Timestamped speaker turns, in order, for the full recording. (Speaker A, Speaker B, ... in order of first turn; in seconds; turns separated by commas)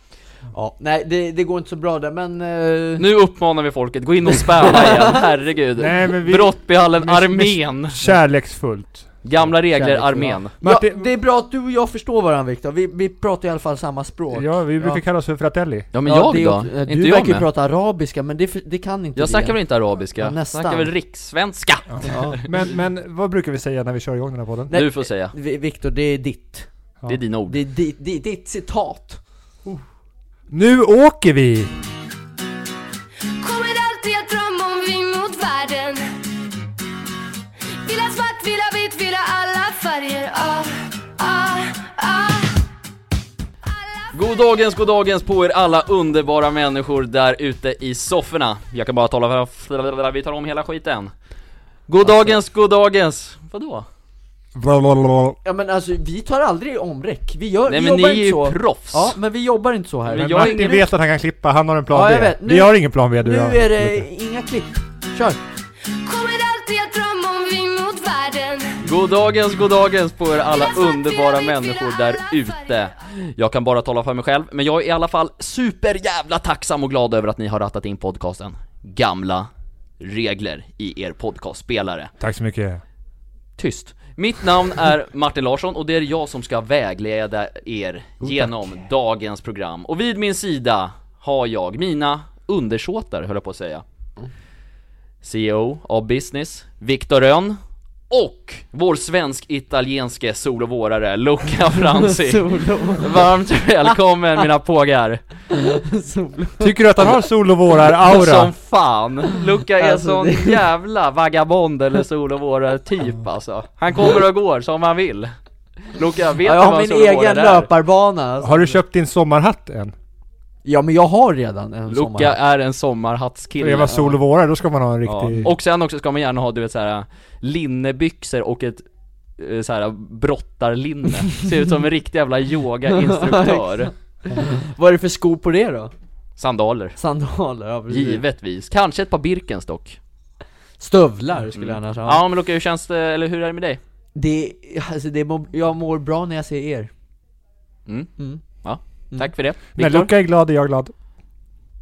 Speaker A: 0.5-3.0, Speaker B: 3.0-8.0, Speaker A: 4.4-5.2, Speaker C: 5.8-9.1, Speaker B: 9.2-10.5, Speaker A: 9.4-15.0, Speaker C: 10.6-11.1, Speaker C: 14.3-15.9, Speaker B: 15.9-17.4, Speaker A: 16.0-19.6, Speaker B: 19.1-22.5, Speaker A: 20.1-20.9, Speaker A: 22.0-22.4, Speaker C: 22.4-24.7, Speaker A: 24.7-26.7, Speaker B: 24.7-25.3, Speaker B: 27.1-27.6, Speaker A: 27.5-29.2, Speaker C: 30.5-31.7, Speaker D: 33.4-36.1, Speaker D: 37.8-42.7, Speaker D: 43.6-44.9, Speaker B: 44.1-51.1, Speaker B: 51.9-53.9, Speaker C: 54.5-55.4, Speaker A: 55.4-60.8, Speaker B: 57.7-59.1, Speaker B: 60.0-60.9, Speaker C: 60.2-64.1, Speaker A: 61.9-65.4, Speaker D: 65.8-68.9, Speaker B: 68.8-79.5, Speaker D: 70.3-72.9, Speaker B: 80.0-82.1, Speaker C: 82.2-82.8, Speaker B: 83.6-93.8, Speaker C: 88.2-88.5, Speaker B: 95.2-97.6, Speaker B: 98.1-105.2, Speaker A: 102.0-103.3, Speaker A: 105.5-106.7, Speaker C: 106.6-108.5, Speaker B: 107.9-115.3, Speaker A: 109.8-110.7, Speaker B: 115.9-117.7, Speaker A: 116.4-118.8, Speaker C: 118.4-119.9, Speaker A: 120.6-122.3, Speaker B: 121.9-124.0, Speaker C: 123.6-125.5, Speaker B: 125.0-128.8, Speaker B: 129.4-133.9, Speaker A: 132.9-135.9, Speaker B: 136.4-137.0, Speaker A: 137.0-138.2, Speaker B: 137.9-140.0, Speaker A: 140.8-142.2, Speaker B: 141.5-143.8, Speaker A: 144.1-146.9, Speaker B: 148.6-150.1, Speaker C: 149.8-150.9